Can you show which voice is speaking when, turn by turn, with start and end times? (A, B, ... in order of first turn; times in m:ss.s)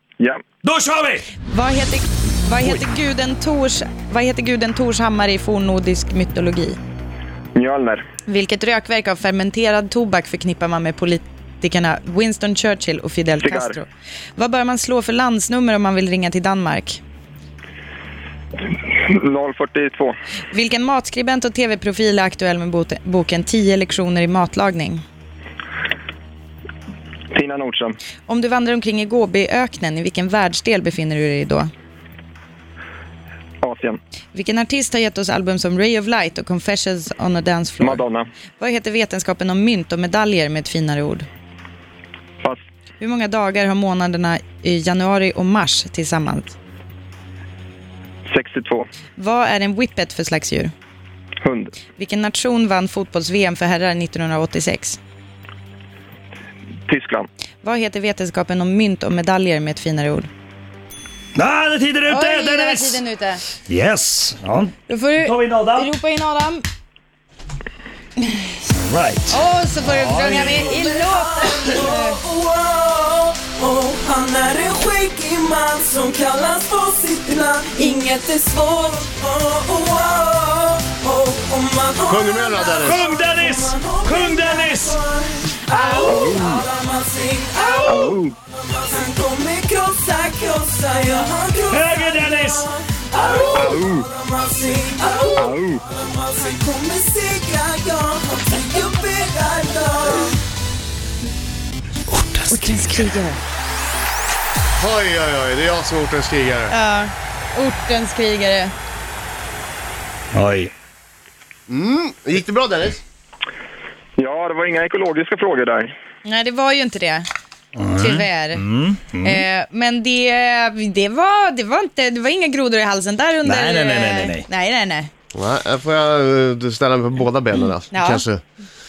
0:00.6-0:01.3 A
0:01.5-0:06.8 B
0:07.5-0:08.0 C
0:08.2-0:17.0 B
0:13.4-0:13.8 C
0:18.9-0:20.2 C
0:20.5-0:25.0 B
0:27.3-0:28.0 C
0:28.3-0:31.7 B
0:33.6-0:34.0 C
0:34.3-0:38.0 B
0:37.8-0:38.3 C
0:38.6-0:41.3 B
0:43.0-0:46.6 B
0:48.3-0:48.9 C
0:49.2-0:50.7 B
0:51.4-0:51.7 C
0:52.0-0:55.0 B
0:56.9-0:57.3 C
0:57.6-1:00.3 B
1:01.4-1:03.0 A
1:02.1-1:03.4 B
1:03.7-1:05.9 A
1:04.9-1:06.6 B
1:08.8-1:10.8 A
1:09.3-1:12.2 B
1:10.7-1:40.4 D
1:17.7-1:18.7 B
1:22.0-1:23.0 E
1:22.8-1:25.0 A
1:26.0-1:26.6 C
1:27.8-1:28.1 B
1:27.8-1:28.3 C
1:31.7-1:32.7 A
1:33.5-1:34.1 C
1:35.4-1:35.8 C
1:42.1-1:43.1 A
1:42.5-1:43.4 B
1:44.8-1:46.7 E
1:46.7-1:48.7 B
1:50.3-1:50.7 A
1:51.7-1:53.0 E
1:54.2-1:55.9 C
1:56.2-1:57.2 B
1:57.8-1:59.4 A
1:57.9-1:58.6 B
1:59.2-2:05.1 B
2:03.4-2:04.5 A
2:05.3-2:08.4 E
2:07.9-2:08.2 B